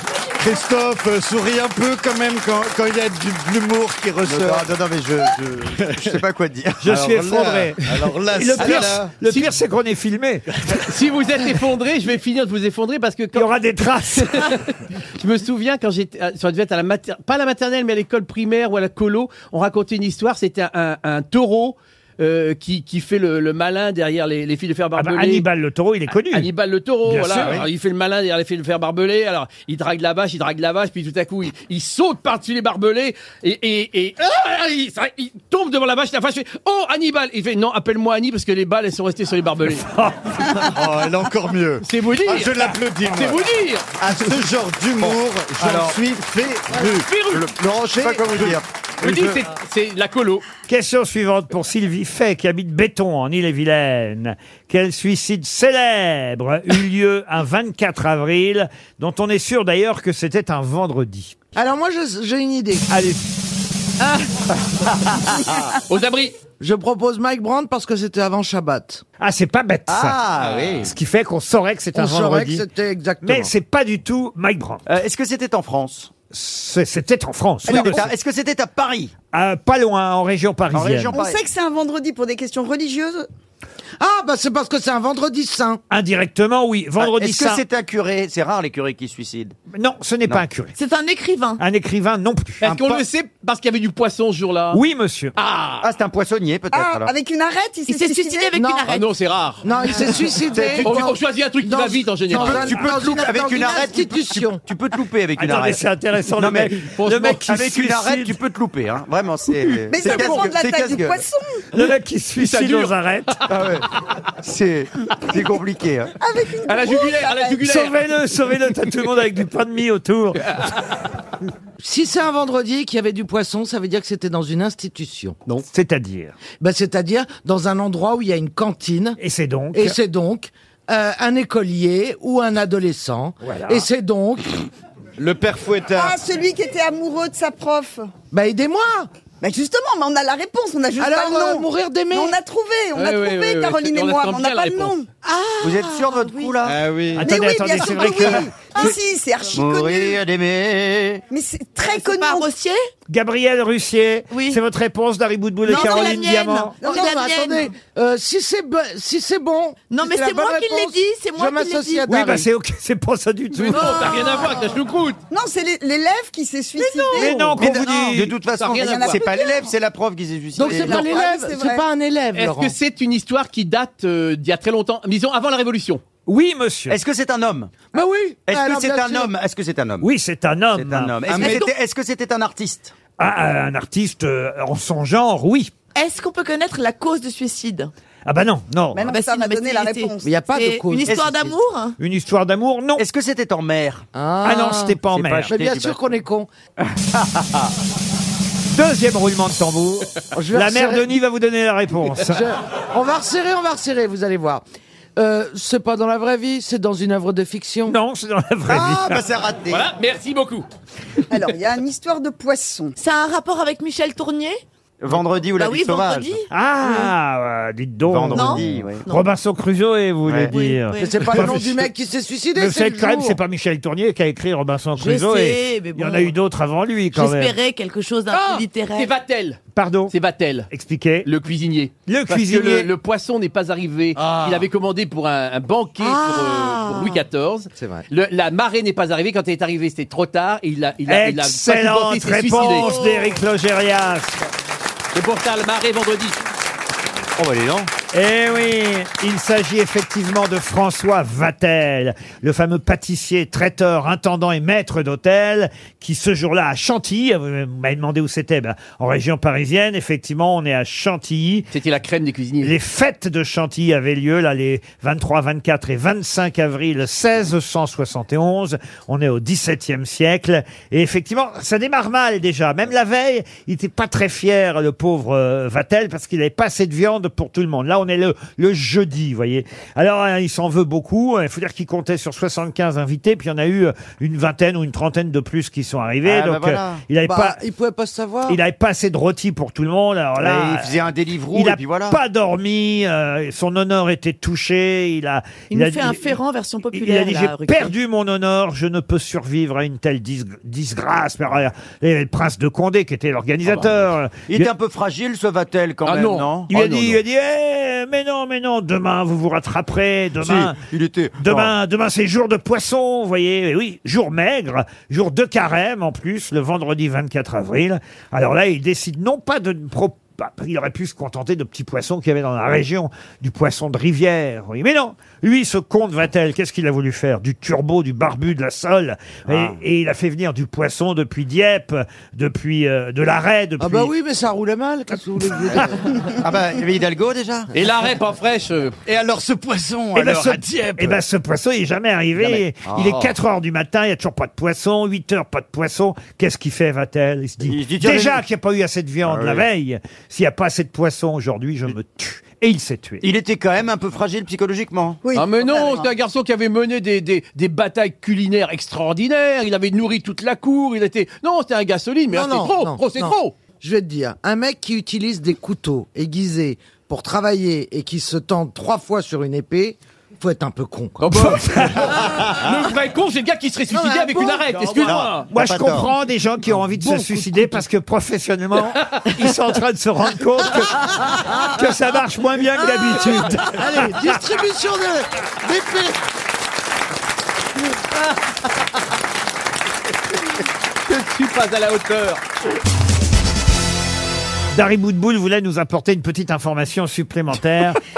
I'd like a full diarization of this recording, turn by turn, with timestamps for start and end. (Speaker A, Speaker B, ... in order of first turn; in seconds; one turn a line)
Speaker A: 0.4-4.7
Speaker B: 4.2-6.8
Speaker A: 5.6-6.2
Speaker C: 6.8-10.5
Speaker A: 6.8-9.1
Speaker D: 9.2-9.6
Speaker D: 10.7-13.6
Speaker C: 13.3-14.6
Speaker D: 14.1-25.5
Speaker C: 25.0-26.5
Speaker D: 26.2-39.9
Speaker C: 27.1-27.6
Speaker C: 39.9-40.5
Speaker A: 40.5-49.4
Speaker D: 41.8-43.9
Speaker B: 45.0-46.0
Speaker D: 46.7-47.5
Speaker B: 47.4-49.3
Speaker D: 49.0-50.5
Speaker C: 50.7-61.4
Speaker E: 61.5-62.9
Speaker C: 62.9-63.3
Speaker B: 65.3-65.8
Speaker D: 65.9-66.4
Speaker E: 66.6-69.0
Speaker C: 69.2-70.2
Speaker B: 69.9-70.9
Speaker C: 70.8-72.7
Speaker E: 71.9-73.5
Speaker C: 73.2-74.8
Speaker B: 74.9-76.1
Speaker C: 76.3-78.1
Speaker B: 77.7-79.1
Speaker C: 79.3-81.2
Speaker B: 80.7-81.4
Speaker F: 81.1-83.3
Speaker E: 84.0-85.8
Speaker C: 85.9-87.6
Speaker B: 87.0-89.6
Speaker C: 89.7-90.8
Speaker G: 90.8-91.6
Speaker C: 91.6-92.6
Speaker A: 92.6-93.0
Speaker D: 92.6-94.8
Speaker C: 94.7-95.3
Speaker D: 95.4-95.9
Speaker B: 95.8-97.1
Speaker F: 96.7-98.5
Speaker G: 97.9-99.1
Speaker E: 98.6-98.9
Speaker D: 98.9-100.2
Speaker E: 99.6-104.6
Speaker B: 100.5-101.0
Speaker D: 100.8-103.0
Speaker B: 102.3-105.8
Speaker C: 105.4-108.4
Speaker B: 106.4-106.8
Speaker D: 107.0-107.5
Speaker B: 107.5-111.2
Speaker D: 109.7-110.5
Speaker F: 109.9-111.6
Speaker C: 111.7-113.4
Speaker D: 112.4-113.0
Speaker B: 113.5-113.9
Speaker B: 114.4-116.1
Speaker F: 116.2-117.6
Speaker D: 116.7-118.0
Speaker C: 117.6-120.5
Speaker D: 120.4-120.8
Speaker E: 121.8-125.4
Speaker C: 125.7-126.4
Speaker E: 126.5-129.2
Speaker C: 129.2-130.0
Speaker E: 129.7-134.7
Speaker C: 133.4-133.9
Speaker A: 135.2-136.2
Speaker F: 135.9-138.1
Speaker E: 138.3-139.1
Speaker F: 139.4-145.1
Speaker E: 141.0-142.4
Speaker D: 142.9-145.0
Speaker G: 145.2-146.6
Speaker B: 145.6-146.8
Speaker A: 146.6-147.3
Speaker C: 147.2-148.9
Speaker F: 147.2-150.2
Speaker B: 149.5-151.2
Speaker F: 151.3-152.5
Speaker G: 151.9-152.8
Speaker C: 153.1-156.8
Speaker G: 154.3-154.6
Speaker G: 155.7-157.7
Speaker F: 155.7-157.3
Speaker E: 156.8-162.5
Speaker G: 159.9-162.1
Speaker C: 162.1-164.1
Speaker D: 163.6-165.2
Speaker G: 163.7-164.6
Speaker F: 165.3-167.6
Speaker D: 166.8-167.2
Speaker C: 167.1-168.4
Speaker B: 167.5-171.2
Speaker D: 168.6-169.2
Speaker F: 168.7-169.7
Speaker E: 170.6-172.7
Speaker F: 170.6-171.8
Speaker D: 172.3-176.0
Speaker C: 176.3-177.0
Speaker B: 176.9-177.8
Speaker E: 177.9-179.3
Speaker B: 178.5-180.1
Speaker C: 180.0-181.6
Speaker B: 180.8-182.9
Speaker G: 181.3-181.7
Speaker C: 183.2-185.7
Speaker G: 185.9-187.9
Speaker C: 188.3-189.1
Speaker F: 188.9-190.4
Speaker G: 189.0-192.0
Speaker E: 190.2-191.2
Speaker B: 191.1-191.5
Speaker C: 192.0-193.0
Speaker B: 193.0-194.1
Speaker E: 194.1-196.5
Speaker C: 194.4-195.5
Speaker B: 195.1-196.0
Speaker B: 196.9-197.7
Speaker C: 198.7-202.5
Speaker E: 200.3-201.1
Speaker E: 202.2-204.6
Speaker E: 205.2-207.9
Speaker C: 207.9-209.2
Speaker B: 208.7-209.9
Speaker D: 209.7-210.7
Speaker F: 211.3-212.9
Speaker G: 213.0-214.6
Speaker B: 215.0-216.4
Speaker G: 215.6-217.1
Speaker C: 216.5-221.9
Speaker B: 218.1-219.0
Speaker G: 218.3-219.3
Speaker B: 220.3-220.5
Speaker G: 220.5-221.4
Speaker E: 221.0-223.4
Speaker C: 222.6-227.6
Speaker G: 225.0-226.3
Speaker G: 227.1-229.1
Speaker D: 228.3-229.6
Speaker C: 229.8-230.1
Speaker D: 230.1-230.7
Speaker C: 230.7-231.3
Speaker D: 231.2-242.9
Speaker C: 232.1-232.9
Speaker G: 236.0-237.2
Speaker E: 237.8-238.1
Speaker C: 241.1-244.4
Speaker G: 242.6-243.4
Speaker D: 245.1-246.4
Speaker B: 247.4-247.9
Speaker C: 248.1-261.7
Speaker D: 261.7-262.7
Speaker C: 262.6-287.6
Speaker B: 286.2-287.1
Speaker E: 287.2-288.6
Speaker C: 288.5-290.9
Speaker B: 290.4-292.2
Speaker C: 291.5-296.4
Speaker G: 295.7-297.9
Speaker C: 296.9-304.7
Speaker B: 304.5-306.7
Speaker D: 306.1-307.2
Speaker C: 306.7-310.8
Speaker B: 310.4-311.7
Speaker C: 311.4-334.1
Speaker B: 329.5-329.8
Speaker E: 333.8-336.2
Speaker B: 336.2-337.7
Speaker D: 337.7-339.0
Speaker A: 339.1-340.5
Speaker C: 340.1-353.3
Speaker B: 340.2-340.6
Speaker B: 342.4-343.3
Speaker B: 347.6-348.4
Speaker B: 349.3-349.6
Speaker B: 353.2-355.2
Speaker F: 355.2-356.1
Speaker D: 355.3-363.6
Speaker E: 362.3-371.5
Speaker D: 371.2-375.5
Speaker C: 371.3-372.2
Speaker E: 373.9-374.7
Speaker C: 374.7-380.9
Speaker B: 375.1-376.1
Speaker C: 381.7-384.1
Speaker E: 383.6-386.2
Speaker D: 391.1-392.4
Speaker C: 394.7-398.0